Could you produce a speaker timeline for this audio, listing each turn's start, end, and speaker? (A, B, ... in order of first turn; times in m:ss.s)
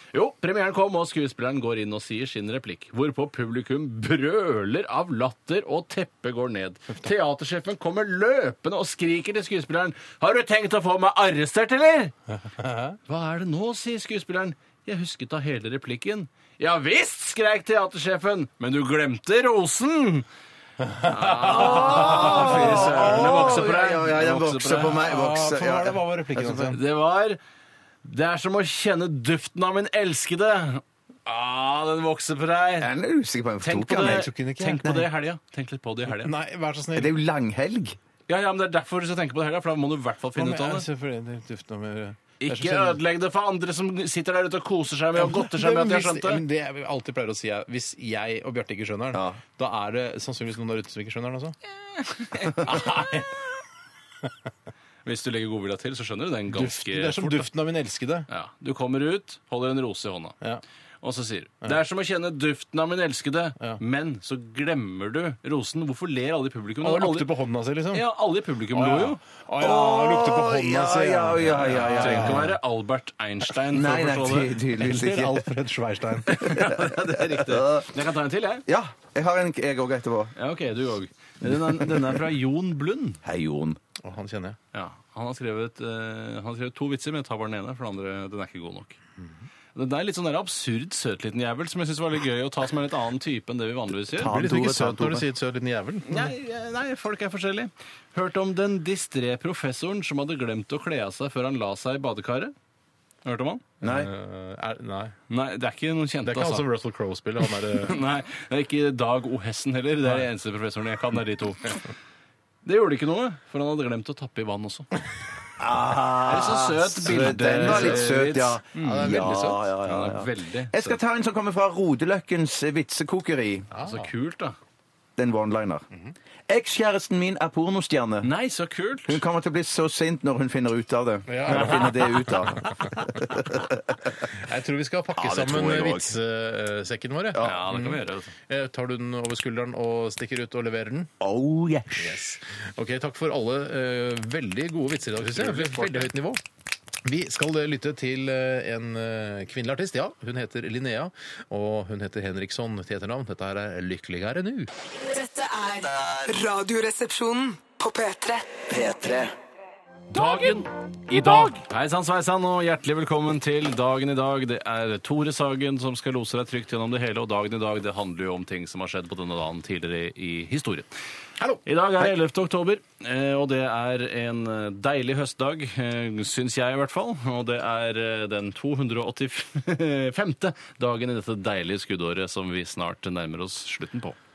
0:00.1-0:12.1 A
0:12.4-0:13.0 B
0:13.1-0:20.3 A
0:20.8-0:23.5 B
0:21.0-0:25.0 A
0:21.5-0:26.0 C
0:25.0-0:26.8 B
0:26.4-0:27.4 A
0:28.0-0:32.9 A
0:32.8-0:34.3 C
0:33.6-0:36.3 A
0:34.0-0:35.0 B
0:36.1-0:37.1 B
0:36.9-0:38.0 C
0:38.3-0:40.8 A
0:40.3-0:43.0 B
0:42.4-0:46.4 A
0:45.1-0:51.6 B
0:49.1-0:49.4 C
0:51.9-0:52.7 A
0:52.6-0:53.4 B
0:55.0-0:57.5 A
0:56.5-0:58.3 B
0:58.3-1:00.4 A
1:01.0-1:07.3 A
1:06.8-1:08.0 B
1:07.9-1:09.2 A
1:08.7-1:12.5 B
1:09.6-1:12.5 C
1:11.4-1:14.6 A
1:13.5-1:15.5 C
1:14.8-1:16.4 B
1:16.2-1:18.6 A
1:16.5-1:17.9 C
1:18.7-1:20.3 C
1:20.4-1:23.2 A
1:21.6-1:22.2 C
1:23.2-1:23.8 C
1:24.0-1:24.6 B
1:24.7-1:29.0 A
1:29.7-1:34.3 A
1:34.2-1:35.2 C
1:34.2-1:36.3 B
1:36.0-1:42.5 A
1:43.2-1:43.6 A
1:43.8-1:45.1 B
1:43.8-1:44.1 C
1:45.3-1:46.6 A
1:46.2-1:48.0 B
1:47.6-1:51.8 A
1:52.6-1:54.9 A
1:55.6-2:03.7 C
1:56.2-2:01.0 A
1:57.3-1:58.2 B
1:58.7-1:59.7 B
2:03.7-2:04.1 B
2:03.8-2:04.6 A
2:05.2-2:05.8 C
2:06.5-2:08.3 C
2:08.2-2:09.2 A
2:09.1-2:14.2 C
2:11.3-2:12.8 B
2:14.3-2:21.1 B
2:15.2-2:16.1 C
2:17.3-2:17.8 C
2:17.4-2:18.3 A
2:21.2-2:22.2 C
2:22.0-2:26.4 B
2:25.2-2:26.1 A
2:27.0-2:34.7 B
2:35.0-2:39.3 D
2:40.1-2:50.9 A
2:40.1-2:40.6 B
2:41.1-2:41.6 B
2:51.4-2:51.6 B
2:51.6-3:04.2 A